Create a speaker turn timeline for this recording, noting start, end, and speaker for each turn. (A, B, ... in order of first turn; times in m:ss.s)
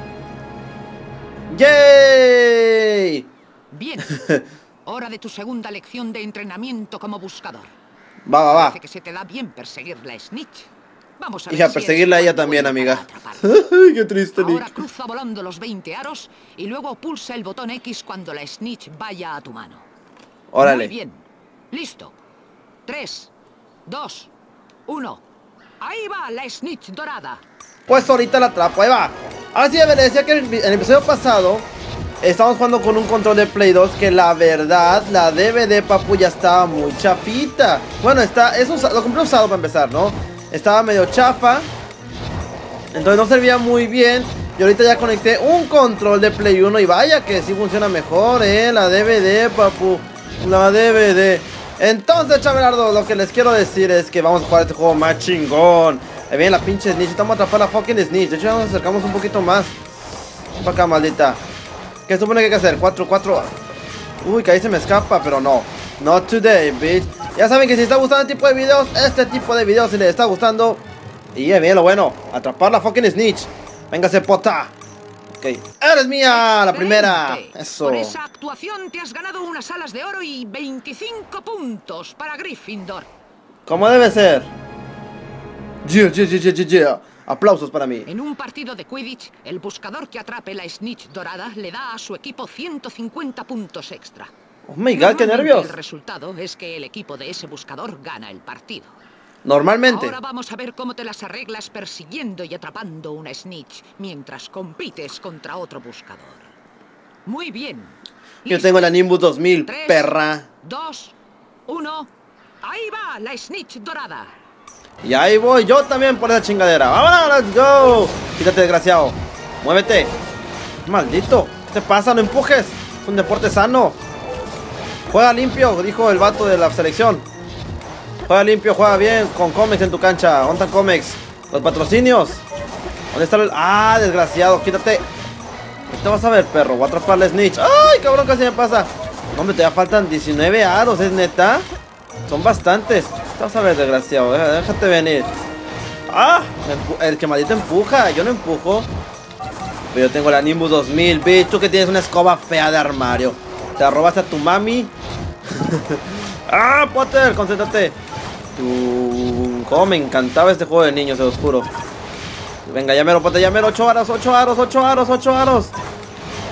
0:01.5-0:03.3 A
0:03.7-0:04.3 B
0:04.8-0:07.7 B
0:08.2-0:08.8 A
0:08.5-0:13.6 B
0:11.5-0:14.7 A
0:14.4-0:19.8 B
0:20.5-0:20.9 A
0:20.6-0:22.1 B
0:22.8-0:23.3 B
0:23.8-0:24.3 B
0:24.9-0:25.2 B
0:25.8-0:27.4 B
0:27.9-0:31.7 A
0:32.2-0:41.7 A
0:42.9-0:59.8 A
1:00.6-1:01.4 A
1:02.1-1:03.5 A
1:04.2-1:10.8 A
1:11.3-1:14.7 A
1:15.4-1:18.1 A
1:16.3-1:23.1 B
1:23.6-1:24.5 A
1:25.8-1:28.1 A
1:28.1-1:34.3 B
1:34.7-1:35.7 A
1:34.9-1:38.9 B
1:39.4-1:40.1 A
1:39.8-1:46.5 B
1:47.2-1:49.0 B
1:48.5-1:50.4 A
1:49.6-1:51.1 B
1:51.7-1:52.1 B
1:52.6-1:54.3 B
1:55.0-2:00.1 A
2:00.8-2:04.0 A
2:05.1-2:07.2 A
2:08.3-2:12.4 A
2:13.1-2:15.0 A
2:15.9-2:21.7 A
2:22.2-2:25.3 A
2:26.1-2:28.9 A
2:29.9-2:34.9 A
2:35.6-2:38.0 A
2:38.5-2:41.7 A
2:42.6-2:45.7 A